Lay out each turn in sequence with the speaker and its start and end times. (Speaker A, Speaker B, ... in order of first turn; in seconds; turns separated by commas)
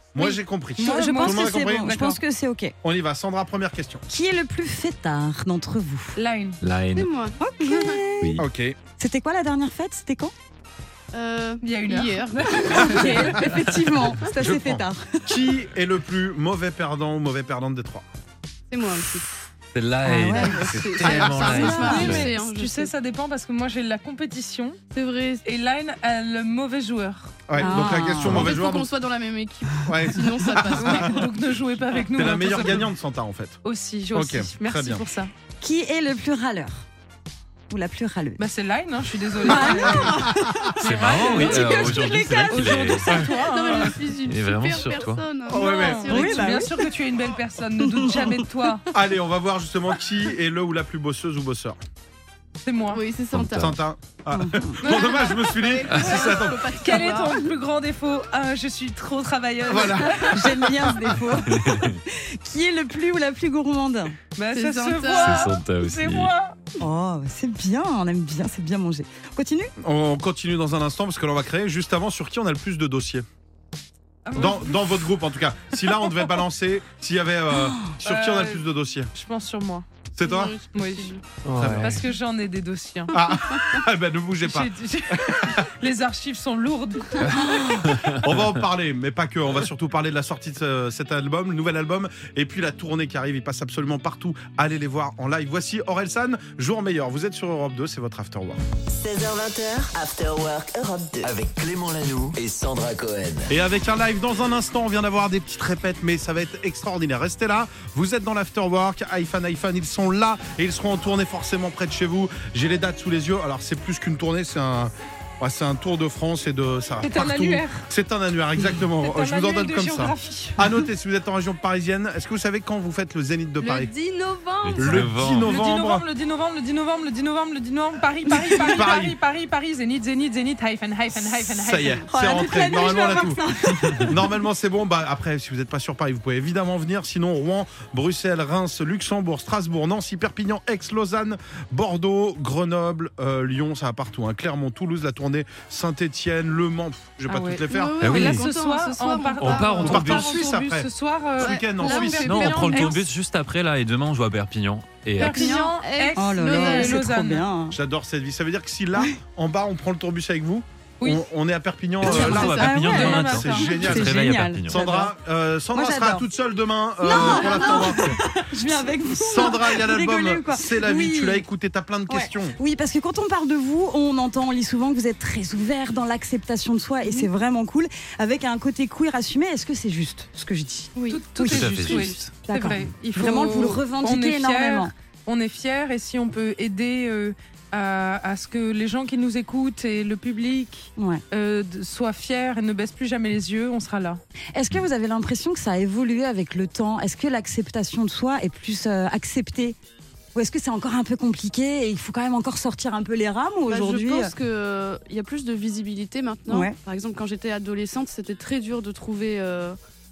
Speaker A: 0.1-2.0, Speaker B: 0.8-2.2, Speaker C: 0.8-2.7, Speaker A: 2.8-4.0, Speaker C: 4.1-6.2, Speaker B: 6.2-6.6, Speaker D: 6.6-7.1, Speaker E: 6.9-8.0, Speaker C: 7.4-8.4, Speaker D: 8.2-8.4, Speaker A: 8.4-8.8, Speaker C: 9.0-10.3, Speaker E: 11.1-13.5, Speaker B: 11.6-13.2, Speaker C: 12.7-15.4, Speaker A: 14.3-18.0, Speaker E: 18.7-19.3, Speaker D: 19.7-22.3, Speaker C: 20.0-20.7, Speaker E: 20.3-22.9, Speaker B: 21.1-24.8, Speaker E: 24.9-25.4, Speaker B: 25.4-27.4, Speaker A: 27.5-28.9, Speaker C: 27.6-28.5, Speaker E: 27.6-31.2, Speaker A: 29.8-31.3, Speaker B: 30.7-32.9, Speaker A: 32.1-33.6, Speaker B: 33.6-35.3, Speaker A: 34.1-35.0, Speaker C: 35.6-36.9, Speaker C: 37.7-38.4, Speaker B: 38.4-44.0, Speaker C: 39.4-40.7, Speaker A: 40.0-40.7, Speaker D: 40.8-43.3, Speaker C: 41.3-42.5, Speaker E: 41.3-42.5, Speaker E: 43.1-46.8, Speaker D: 44.2-45.2, Speaker B: 45.5-48.9, Speaker A: 45.5-46.1, Speaker C: 46.1-46.9, Speaker C: 47.8-48.4, Speaker A: 48.9-51.8, Speaker B: 52.6-53.0, Speaker E: 52.9-53.8, Speaker D: 53.3-53.8, Speaker A: 53.5-57.0, Speaker C: 54.3-54.8, Speaker E: 54.8-57.5, Speaker B: 54.9-55.3, Speaker D: 55.9-56.3, Speaker B: 56.8-60.5, Speaker A: 59.7-60.4, Speaker C: 60.2-64.1, Speaker D: 61.4-62.0, Speaker B: 64.3-66.6, Speaker E: 64.5-65.5, Speaker D: 65.1-66.3, Speaker C: 66.8-69.7, Speaker A: 69.8-73.2, Speaker B: 74.2-74.8, Speaker A: 74.3-79.1, Speaker C: 77.5-77.9, Speaker B: 78.0-79.8, Speaker A: 80.1-80.5, Speaker E: 80.2-81.2, Speaker B: 80.7-81.1, Speaker D: 81.4-82.0, Speaker A: 81.5-82.0, Speaker B: 81.7-83.3, Speaker A: 83.1-85.6, Speaker B: 84.4-87.7, Speaker D: 87.2-88.2, Speaker A: 87.5-98.6, Speaker F: 98.9-101.3, Speaker G: 101.2-103.5, Speaker A: 103.5-123.9, Speaker B: 117.0-117.9, Speaker B: 119.0-120.6, Speaker E: 123.6-125.0, Speaker D: 124.6-125.6, Speaker A: 124.8-126.0, Speaker B: 125.4-132.1, Speaker A: 128.6-129.2, Speaker A: 131.6-148.1, Speaker C: 132.1-134.4, Speaker B: 147.2-153.0, Speaker E: 147.7-149.9, Speaker D: 148.0-148.4, Speaker D: 149.4-150.5, Speaker A: 149.8-152.7, Speaker E: 151.4-153.0, Speaker D: 152.2-155.6, Speaker E: 155.2-157.0, Speaker B: 155.2-157.5, Speaker C: 156.2-157.8, Speaker A: 157.7-162.7, Speaker D: 162.0-164.8, Speaker C: 162.0-165.2, Speaker E: 162.1-162.7, Speaker B: 162.7-163.9, Speaker A: 163.2-172.6, Speaker C: 165.7-166.3, Speaker C: 167.0-171.5, Speaker C: 172.1-184.9, Speaker E: 180.9-181.2, Speaker B: 181.1-194.2, Speaker D: 181.4-182.3, Speaker C: 190.9-191.2, Speaker C: 194.5-199.8, Speaker C: 200.3-204.3, Speaker E: 203.7-209.8, Speaker C: 206.5-206.8